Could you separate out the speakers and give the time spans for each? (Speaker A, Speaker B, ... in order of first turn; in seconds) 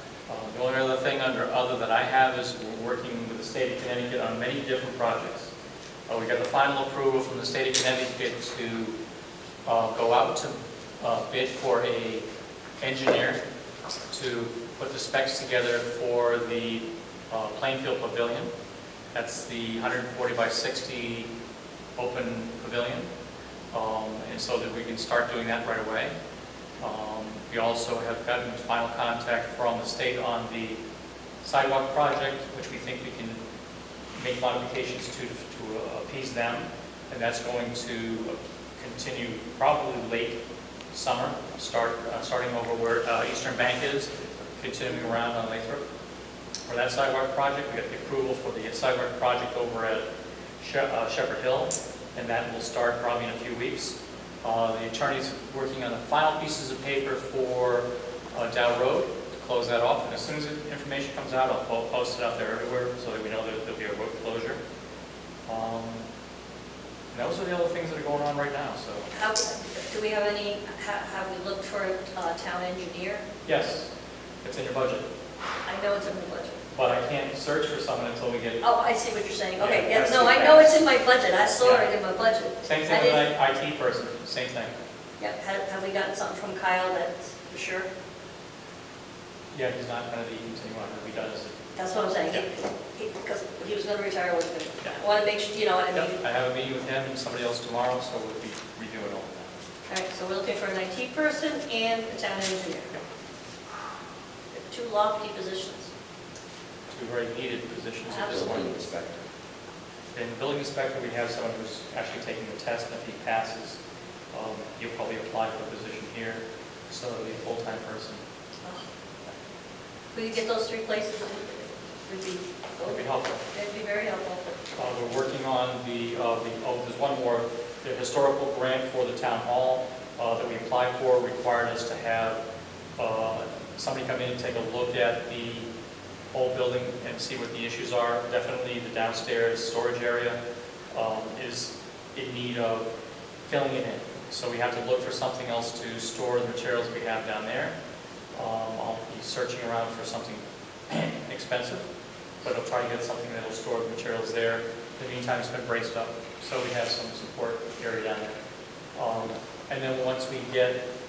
Speaker A: 0.3-5.5, 6.1-9.0, 9.7-12.3, 12.8-13.4, 14.1-18.5, 19.1-21.3, 22.0-23.1, 23.7-26.1, 26.8-30.8, 31.4-33.4, 34.1-40.4, 40.9-45.9, 46.7-50.1, 50.6-64.6, 65.5-66.1, 67.1-69.1, 73.5-73.9, 74.4-75.1, 76.7-78.6, 79.6-79.8, 81.6-81.9, 82.6-84.7, 89.5-91.5, 95.9-99.5, 106.9-108.7, 110.1-113.8, 114.3-118.2, 122.8-123.4, 124.8-132.4, 133.0-135.7, 136.3-140.4, 140.9-142.9, 143.5-147.8, 148.3-151.9, 152.4-158.4, 158.9-160.9
Speaker B: 69.1-73.2, 75.7-76.6, 78.6-83.3, 85.2-87.9, 91.8-96.2, 99.9-102.9, 104.5-105.9, 108.1-108.7, 118.6-118.9, 120.1-124.5
Speaker C: 79.8-80.8, 108.3-109.2